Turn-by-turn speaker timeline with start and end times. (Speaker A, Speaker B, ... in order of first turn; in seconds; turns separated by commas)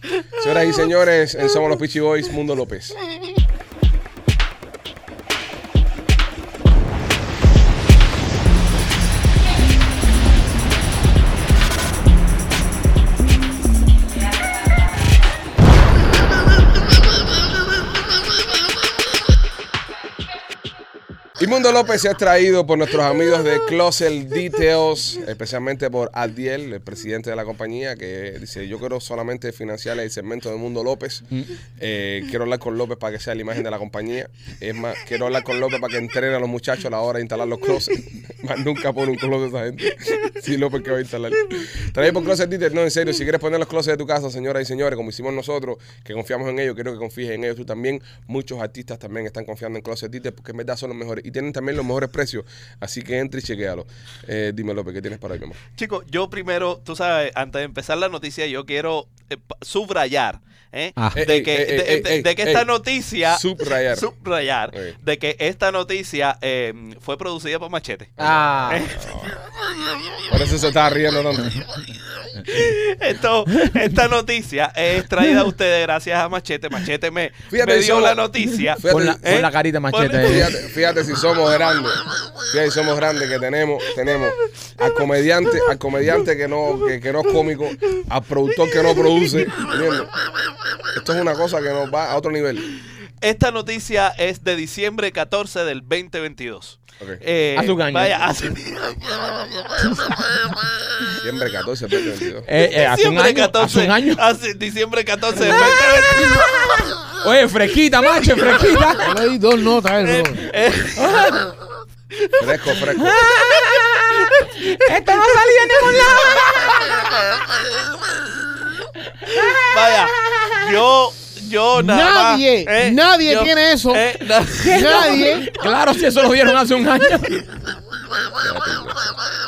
Speaker A: 0.3-3.0, Speaker A: 21.4-31.2, Speaker A: 31.8-55.6, Speaker B: 55.8-69.3, Speaker A: 61.1-62.6, Speaker A: 63.3-64.0, Speaker A: 68.2-69.4, Speaker C: 68.2-68.9, Speaker A: 70.3-71.6, Speaker B: 72.4-80.5, Speaker A: 77.5-78.2, Speaker A: 78.8-79.4, Speaker C: 78.9-80.5, Speaker A: 80.2-90.1, Speaker A: 90.9-92.7, Speaker B: 93.2-100.6, Speaker C: 97.5-98.1, Speaker A: 101.2-102.5, Speaker C: 102.5-104.2, Speaker B: 102.6-107.0, Speaker C: 105.4-105.7, Speaker C: 107.2-109.2, Speaker B: 108.3-108.7, Speaker D: 109.0-110.4, Speaker B: 110.0-111.5, Speaker C: 110.9-111.5, Speaker B: 112.1-112.7, Speaker A: 112.4-113.2, Speaker C: 113.0-117.1, Speaker C: 119.0-120.8, Speaker B: 119.3-125.3, Speaker D: 121.7-125.5, Speaker C: 124.6-127.4, Speaker A: 128.4-129.1